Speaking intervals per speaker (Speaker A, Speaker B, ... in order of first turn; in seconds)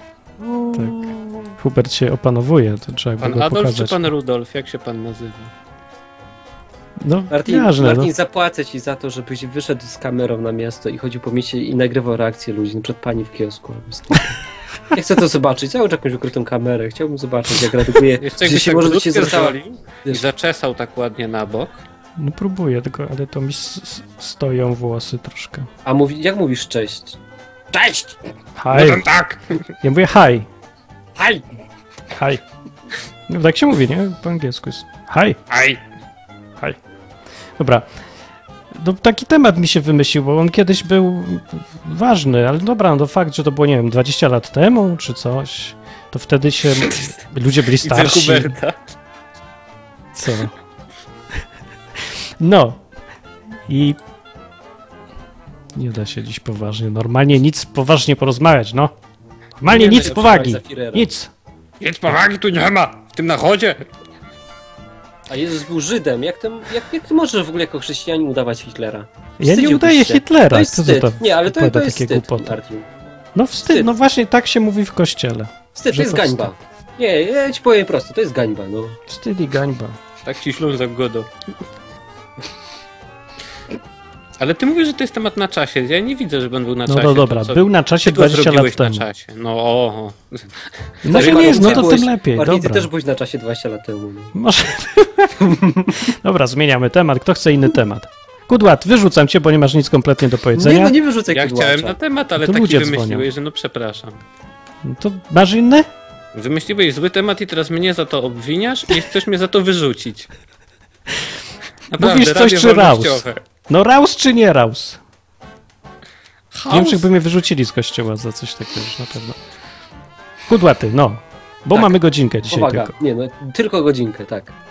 Speaker A: 0.4-1.3, 7.3-14.4, 14.9-20.3, 25.9-27.2, 27.7-28.2, 31.2-31.4, 59.7-61.1, 65.3-72.9, 73.6-73.9, 75.8-79.0, 91.1-94.3, 95.5-95.9, 100.5-102.0, 121.7-124.6
Speaker B: 0.7-4.0, 7.0-8.1, 22.2-25.7, 28.6-29.1, 29.8-30.5, 32.1-32.4, 33.3-35.4, 37.6-37.9, 38.7-48.5, 50.1-50.5, 52.0-52.8, 53.7-54.0, 55.8-58.9, 59.6-61.3, 69.4-72.6, 73.4-76.5, 79.1-80.0, 86.9-89.0, 91.0-92.9, 94.3-101.0, 102.4-103.3, 104.8-105.9, 112.0-115.0, 116.7-119.4, 120.5-123.0
Speaker C: 3.2-5.5, 18.2-21.8, 28.7-29.6, 35.5-35.8, 47.8-48.8, 59.8-60.1, 61.8-63.9, 80.2-81.3, 84.4-90.5, 91.1-91.9, 101.3-104.2, 106.3-110.3, 111.9-113.4, 116.5-117.1